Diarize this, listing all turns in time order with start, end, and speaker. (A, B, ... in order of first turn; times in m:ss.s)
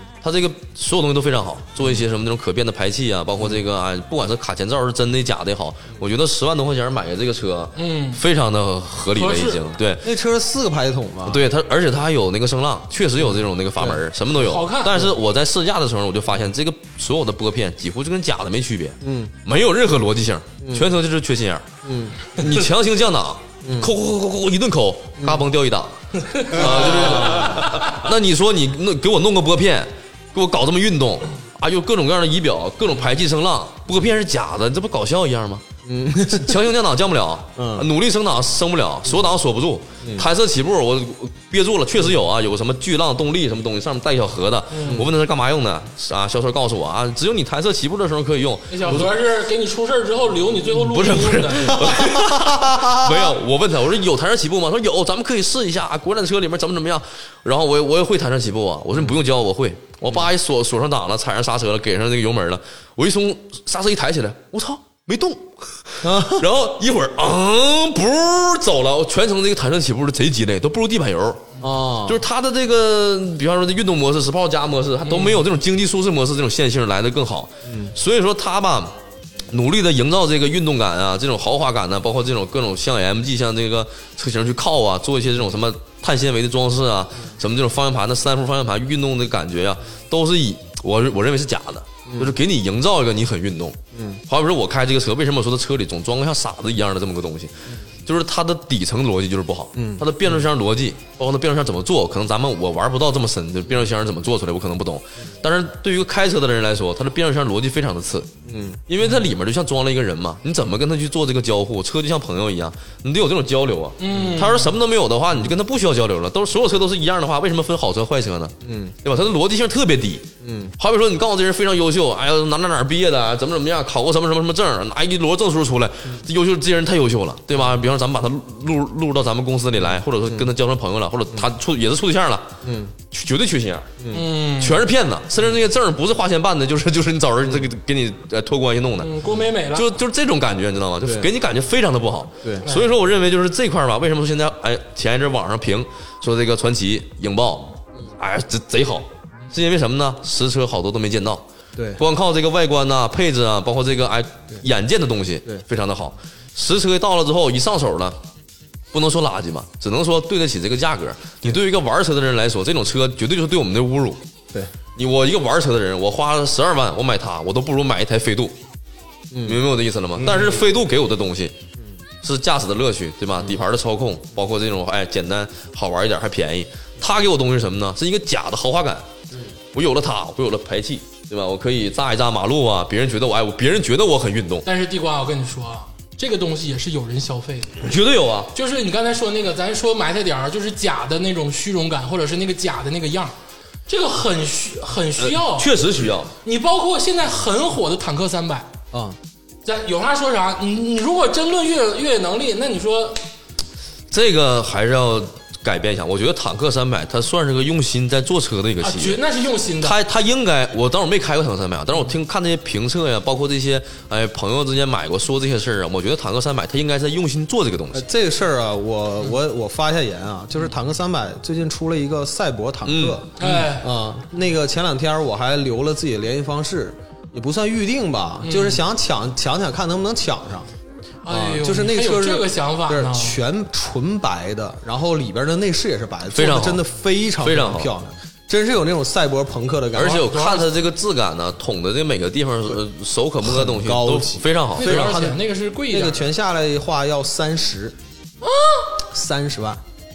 0:00.2-0:10.1 A
0:01.8-0:02.0 B
0:07.8-0:08.2 C
0:09.1-0:09.6 C
0:10.0-0:11.5 B
0:11.3-0:21.7 A
0:13.2-0:14.0 B
0:14.4-0:15.1 C
0:19.0-0:19.4 B
0:20.6-0:20.9 B
0:21.8-0:22.4 B
0:22.3-0:35.6 A
0:23.6-0:23.9 B
0:25.2-0:25.5 B
0:26.2-0:27.9 C
0:26.5-0:27.7 B
0:35.8-0:36.6 B
0:36.3-0:49.1 A
0:37.6-0:37.9 B
0:40.0-0:40.3 B
0:44.7-0:45.0 C
0:48.7-0:52.0 C
0:50.7-1:11.5 A
0:51.9-0:53.3 B
1:06.0-1:06.5 B
1:11.6-1:12.2 B
1:12.1-1:19.0 A
1:15.0-1:15.4 C
1:17.7-1:18.0 B
1:19.5-1:48.3 A
1:32.1-1:32.4 B
1:33.9-1:34.2 B
1:39.8-1:40.5 B
1:48.5-1:48.8 B
1:48.9-2:00.3 A
1:54.0-1:54.7 C
1:58.6-1:59.0 B
2:00.4-2:00.7 B
2:00.8-2:12.5 A
2:07.5-2:07.8 B
2:12.6-2:13.0 B
2:13.1-2:13.9 A
2:14.0-2:14.3 B
2:14.1-2:14.8 C
2:14.6-2:19.1 A
2:17.4-2:17.7 B
2:19.0-2:19.9 C
2:19.7-2:31.4 A
2:21.0-2:21.3 B
2:31.8-2:32.0 B
2:32.0-2:38.2 A
2:38.9-2:44.2 A
2:45.0-2:48.6 A
2:49.3-2:49.6 B
2:49.4-2:51.6 A
2:52.2-2:59.1 A
2:59.7-3:04.7 A
3:04.6-3:07.8 C
3:07.8-3:08.5 A
3:08.5-3:13.4 C
3:13.9-3:15.7 C
3:15.2-3:16.3 A
3:16.4-3:18.7 C
3:18.9-3:19.2 B
3:19.6-3:23.2 C
3:24.1-3:29.2 A
3:28.8-3:30.0 C
3:29.8-3:38.0 A
3:37.9-3:50.7 B
3:42.9-3:43.6 A
3:43.4-3:43.9 C
3:48.4-3:48.8 C
3:51.2-3:53.4 C
3:51.3-4:00.3 B
3:56.3-3:56.8 A
3:57.4-3:57.9 A
4:00.0-4:05.2 A
4:00.0-4:00.7 C
4:03.4-4:08.0 B
4:04.8-4:06.3 C
4:08.4-4:08.9 C
4:09.1-4:09.8 B